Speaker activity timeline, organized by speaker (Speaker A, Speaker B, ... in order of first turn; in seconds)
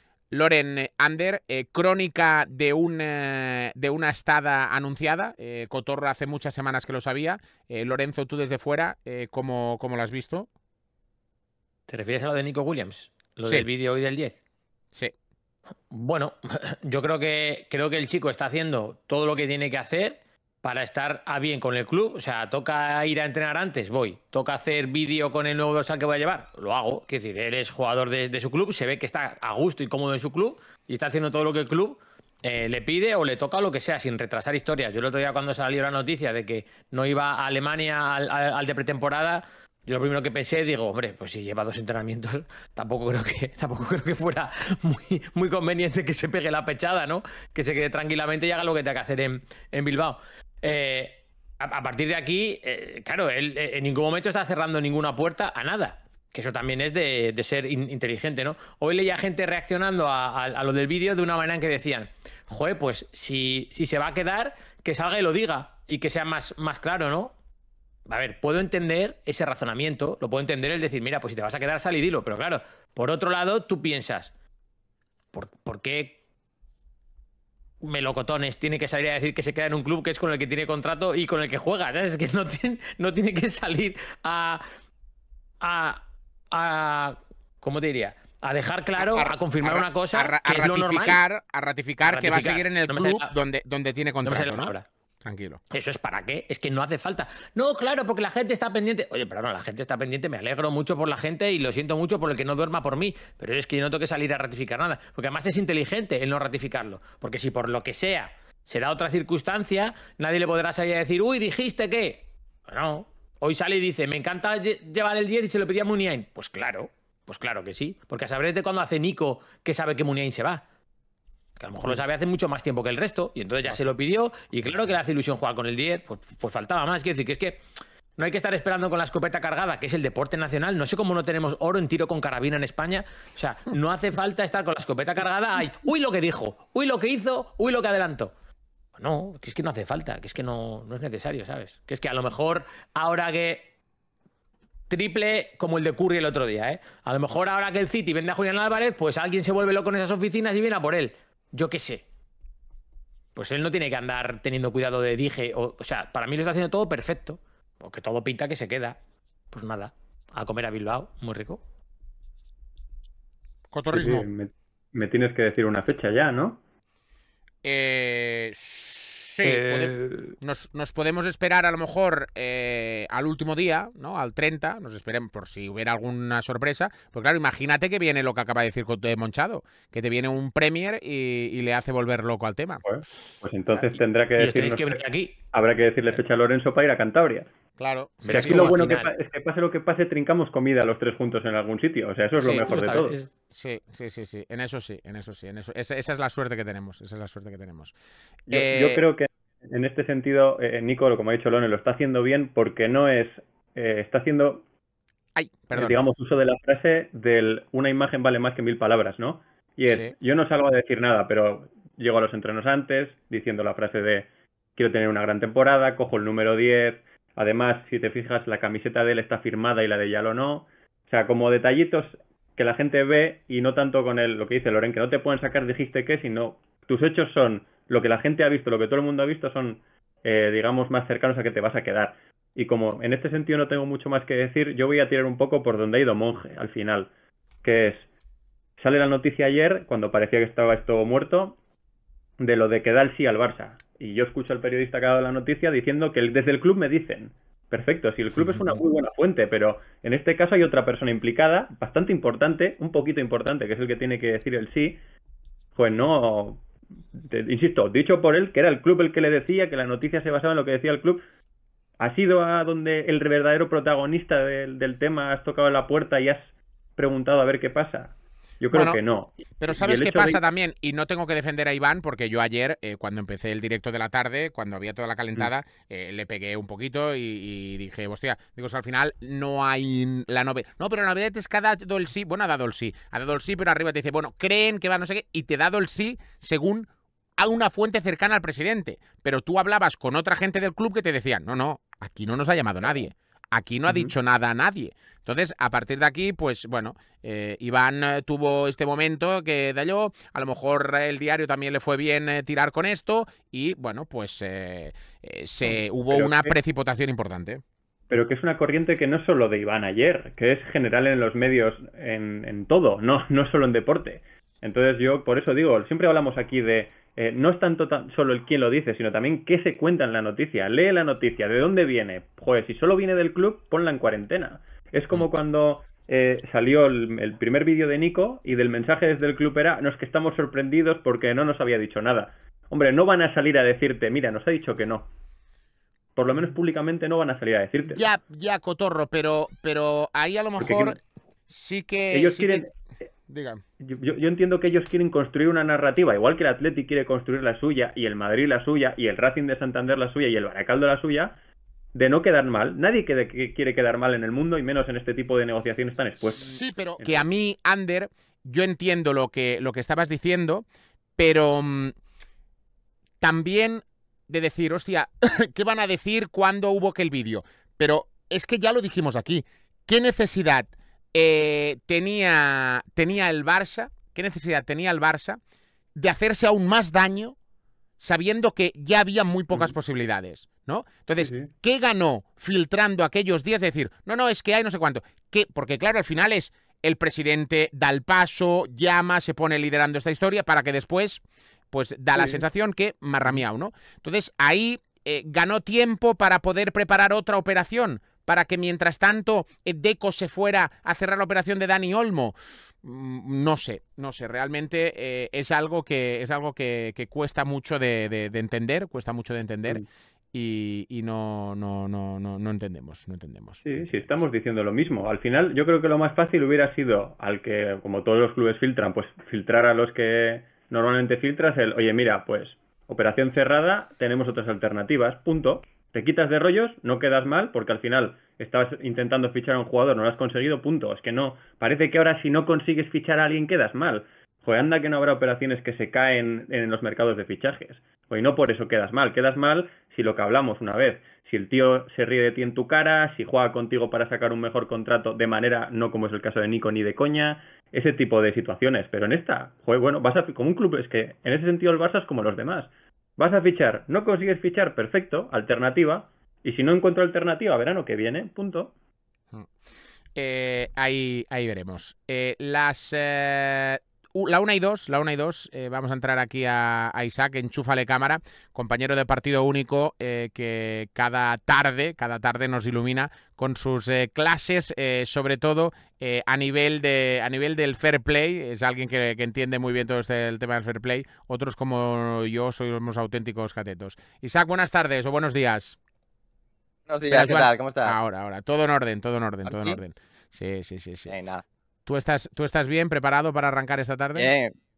Speaker A: 0.3-10.5, 89.0-95.6, 163.7-164.2, 167.6-182.8, 187.8-188.8, 193.5-197.9, 198.5-199.0, 205.3-206.0, 209.9-210.1, 268.7-269.0, 269.6-307.6, 337.9-342.6, 343.3-343.6, 356.3-360.6, 361.2-361.9, 363.2-375.4, 375.9-377.4, 378.0-409.8, 410.3-414.2, 460.1-485.8, 487.1-491.1, 491.9-494.3
Speaker B: 11.9-14.4, 15.9-67.3, 68.1-74.3, 75.3-76.2, 77.8-84.6, 85.6-91.2, 92.0-93.3, 94.2-94.8, 95.7-120.6, 121.6-127.6, 128.2-138.3, 139.0-143.7, 144.9-152.0, 153.3-159.0, 159.5-161.6, 169.4-170.3, 184.4-185.4, 188.3-189.1, 192.4-193.3
Speaker C: 163.9-166.6, 182.8-185.0, 185.5-187.5, 188.2-193.1, 198.5-204.6, 205.7-237.1, 237.6-238.0, 238.8-241.6, 242.4-255.0, 255.8-256.6, 257.1-261.2, 262.0-270.4, 305.6-306.5, 308.1-335.1, 336.1-338.1, 340.6-341.0, 342.1-342.7, 343.8-351.4, 351.9-357.2, 381.2-381.5, 392.2-392.4, 413.6-458.7
Speaker D: 486.9-488.0, 489.4-489.8, 491.1-491.4, 494.1-494.5